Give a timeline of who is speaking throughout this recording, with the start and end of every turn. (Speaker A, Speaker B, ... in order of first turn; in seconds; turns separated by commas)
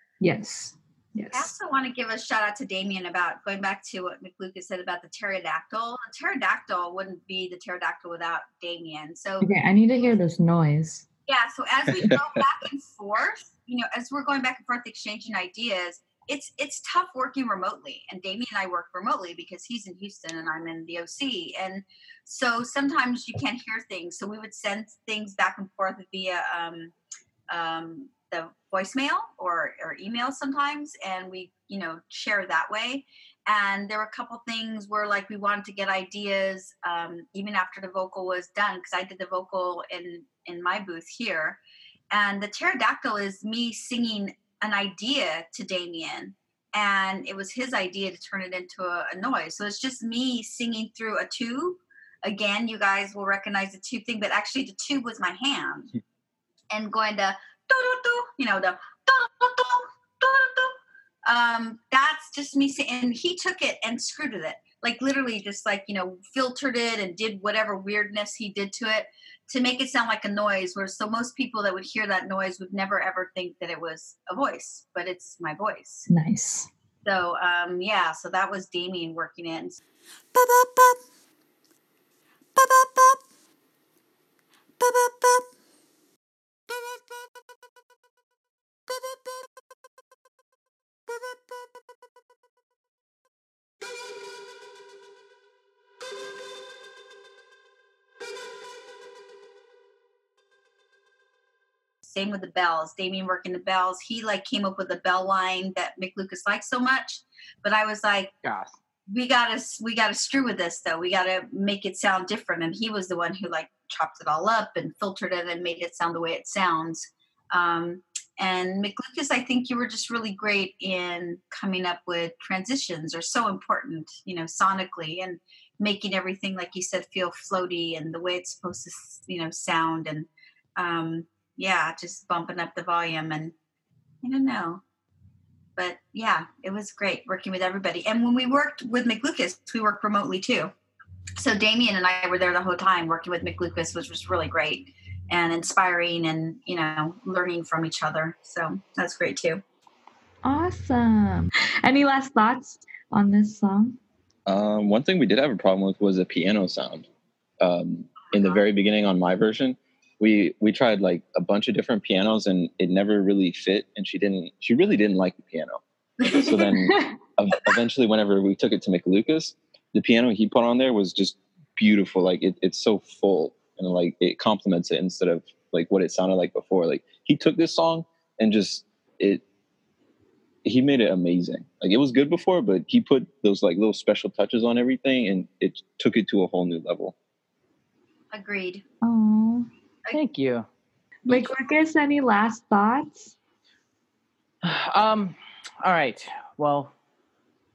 Speaker A: 0.2-1.5, Speaker B: 1.3-9.5, Speaker A: 9.4-11.1, Speaker B: 11.3-26.9, Speaker B: 27.5-41.6, Speaker B: 42.1-55.9, Speaker B: 56.7-76.1, Speaker A: 76.1-76.7, Speaker B: 77.0-79.8, Speaker C: 80.3-81.0, Speaker C: 82.5-83.2, Speaker C: 84.8-85.5, Speaker C: 86.7-87.0, Speaker C: 88.9-89.4, Speaker C: 91.1-91.4, Speaker B: 102.0-108.3, Speaker D: 108.4-108.7, Speaker B: 109.1-133.5, Speaker B: 134.2-134.8, Speaker B: 135.8-140.7, Speaker B: 141.4-149.6, Speaker A: 150.4-154.0, Speaker E: 154.5-157.1, Speaker E: 157.6-165.8, Speaker B: 158.2-158.6, Speaker B: 166.2-166.8, Speaker E: 166.3-179.4, Speaker A: 166.9-167.1, Speaker E: 180.6-187.1, Speaker B: 188.3-188.8, Speaker A: 189.0-189.7, Speaker D: 190.1-190.7, Speaker A: 191.2-193.3, Speaker D: 194.6-196.9